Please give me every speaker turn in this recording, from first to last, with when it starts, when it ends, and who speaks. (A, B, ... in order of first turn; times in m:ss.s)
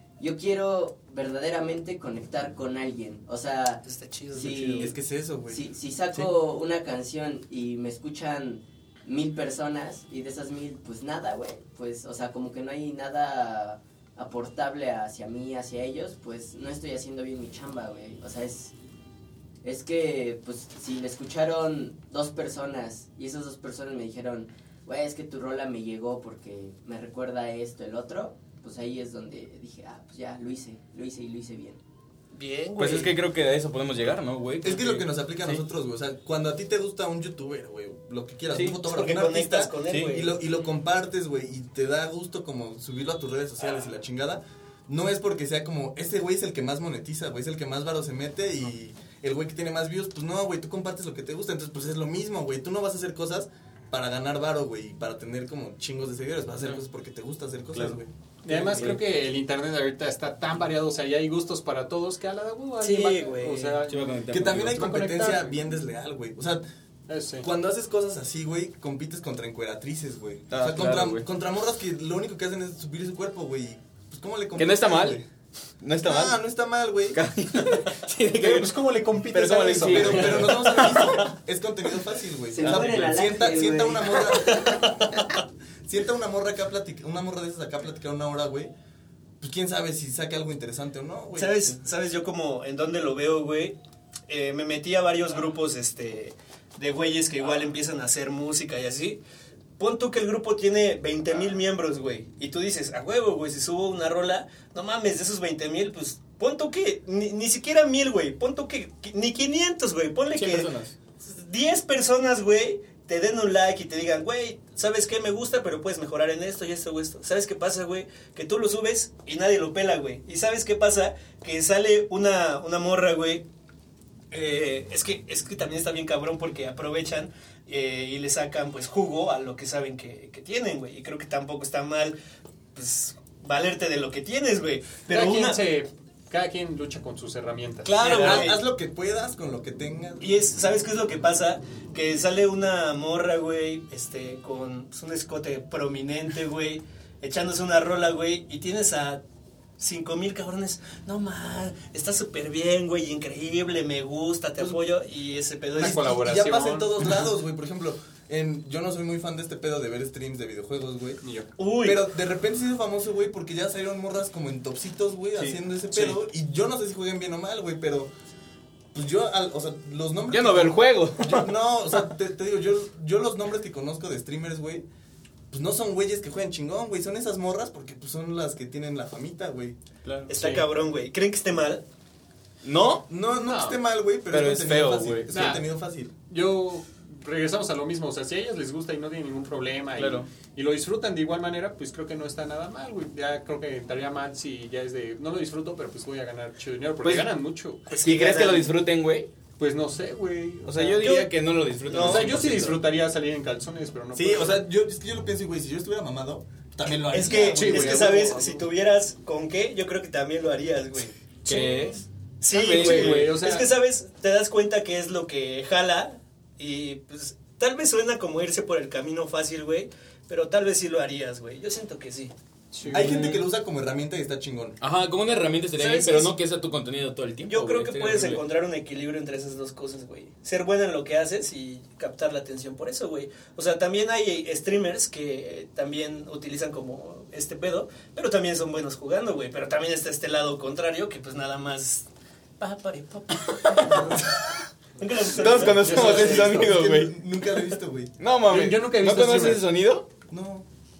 0:00.2-0:05.0 A
0:03.8-0:04.9 B
0:04.4-0:06.3 C
0:05.5-0:18.7 A
0:19.6-0:31.8 A
0:32.3-0:33.1 B
0:32.8-0:35.6 D
0:34.6-0:59.0 C
0:38.5-0:38.8 D
0:38.9-0:40.4 B
0:57.8-0:59.0 D
0:58.4-1:05.6 E
1:02.8-1:03.8 B
1:03.9-1:04.8 D
1:04.3-1:06.6 C
1:07.1-1:07.5 E
1:07.4-1:15.3 C
1:10.5-1:11.3 D
1:14.6-1:15.2 D
1:15.8-1:16.4 D
1:16.0-1:17.2 C
1:17.1-1:21.2 D
1:18.3-1:20.9 E
1:19.8-1:25.3 C
1:22.5-1:24.7 A
1:22.6-1:23.1 D
1:24.5-1:24.8 B
1:25.9-1:28.7 C
1:29.4-1:31.8 C
1:31.4-1:33.8 B
1:34.3-1:39.2 B
1:39.8-1:50.7 B
1:50.3-1:51.0 D
1:51.2-2:03.4 B
2:04.3-2:12.2 B
2:12.8-2:15.6 B
2:15.1-2:18.5 E
2:17.8-2:18.6 B
2:18.0-2:20.3 C
2:20.2-2:29.2 B
2:29.8-2:36.3 B
2:35.8-2:37.2 E
2:35.8-2:41.2 C
2:41.2-2:41.5 E
2:41.6-2:42.0 B
2:41.8-2:48.1 C
2:48.9-2:54.8 C
2:50.3-2:51.5 D
2:55.5-2:59.8 C
3:00.0-3:00.3 D
3:00.3-3:01.8 B
3:00.4-3:00.7 E
3:02.6-3:03.1 D
3:03.1-3:06.1 C
3:03.4-3:03.8 E
3:04.3-3:05.3 D
3:05.3-3:05.7 E
3:06.3-3:17.8 E
3:10.0-3:10.3 D
3:17.0-3:17.3 D
3:17.9-3:18.7 B
3:17.9-3:19.3 D
3:19.6-3:21.1 E
3:20.6-3:22.8 D
3:21.0-3:21.3 B
3:21.8-3:22.4 B
3:21.9-3:24.6 E
3:24.1-3:28.4 C
3:27.1-3:31.8 B
3:27.3-3:28.7 E
3:31.4-3:33.4 D
3:31.5-3:31.9 E
3:32.4-3:42.3 B
3:32.6-3:33.7 E
3:42.7-3:43.4 E
3:42.9-3:43.3 D
3:42.9-3:44.8 C
3:44.8-3:48.4 D
3:45.8-3:46.3 B
3:47.5-4:02.1 B
4:02.6-4:04.3 B
4:05.0-4:06.4 B
4:05.4-4:07.2 D
4:05.6-4:06.7 E
4:05.8-4:08.1 C
4:08.2-4:10.1 D
4:08.5-4:09.6 E
4:10.3-4:10.7 C